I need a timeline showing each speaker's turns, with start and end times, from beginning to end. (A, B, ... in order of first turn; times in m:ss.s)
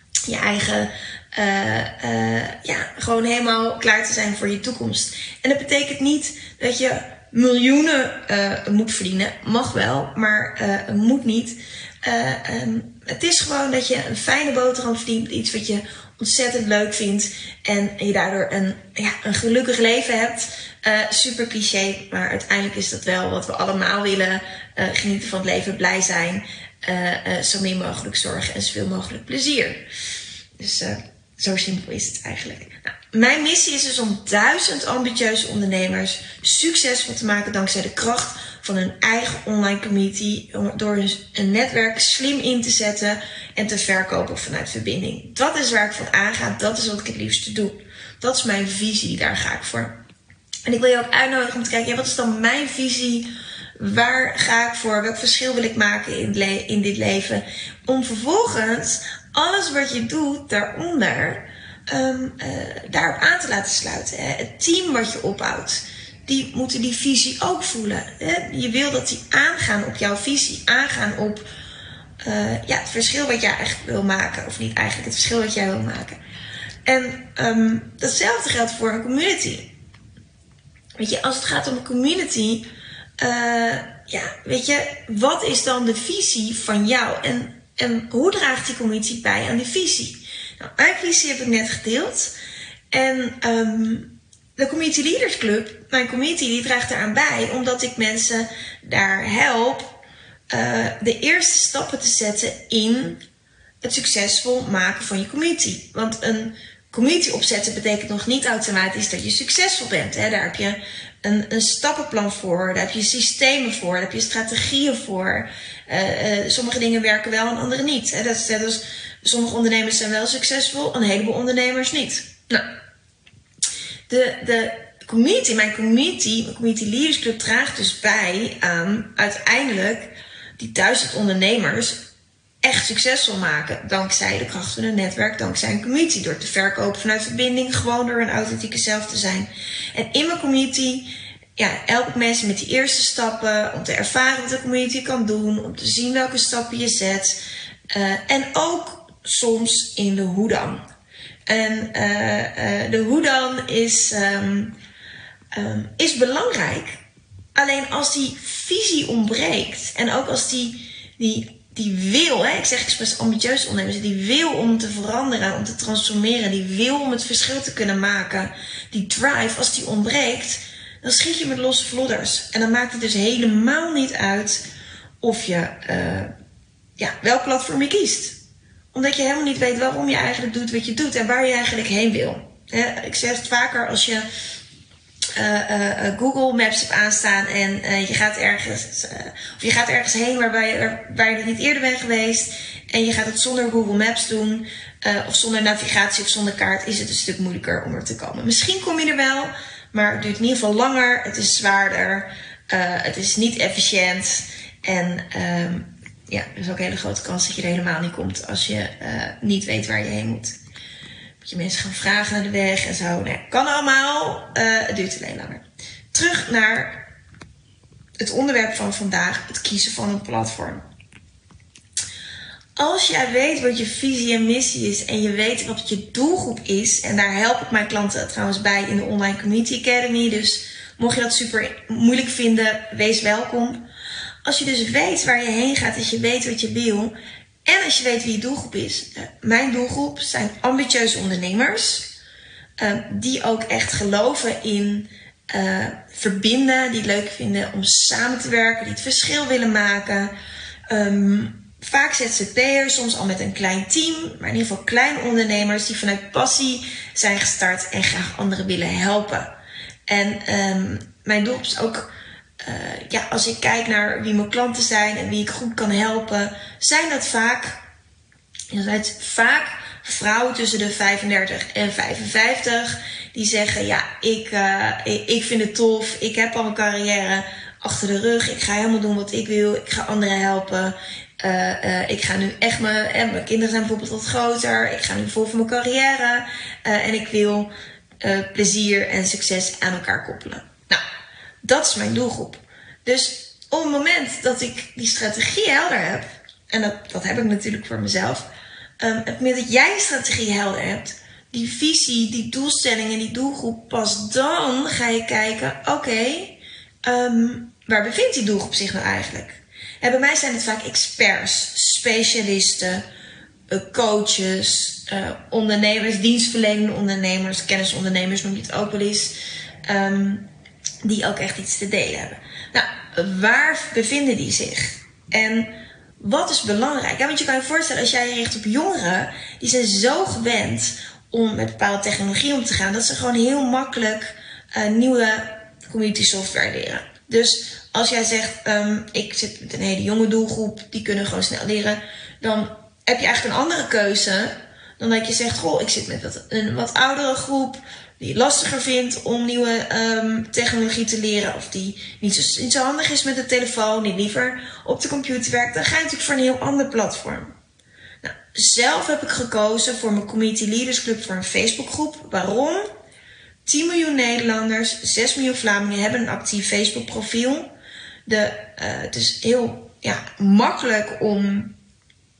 0:00.3-0:29.8 A
0:30.6-0:50.0 A
0:50.7-1:11.5 A
1:12.2-1:16.2 A
1:16.9-1:19.7 A
1:21.0-1:22.6 A
1:23.2-1:32.3 A
1:32.9-1:40.0 A
1:40.5-1:43.2 A
1:43.8-2:02.6 A
2:04.1-2:12.1 A
2:12.6-2:27.4 A
2:27.9-2:30.8 A
2:31.5-2:34.8 A
2:35.5-2:37.0 A
2:37.6-2:54.6 A
2:55.2-2:56.3 A
2:57.0-2:58.4 A
2:58.9-3:04.3 A
3:05.4-3:30.6 A
3:31.4-3:37.1 A
3:38.2-3:40.8 A
3:42.8-3:53.8 A
3:54.4-3:57.1 A
3:57.7-4:02.2 A
4:02.8-4:10.3 A
4:10.9-4:19.5 A
4:20.1-4:22.1 A
4:22.6-4:27.8 A
4:28.7-4:47.7 A
4:48.2-4:51.0 A
4:51.6-4:58.5 A
4:59.0-5:13.0 A
5:13.7-5:20.5 A
5:21.0-5:57.5 A
5:58.2-6:02.9 A
6:03.7-6:07.7 A
6:08.3-6:11.8 A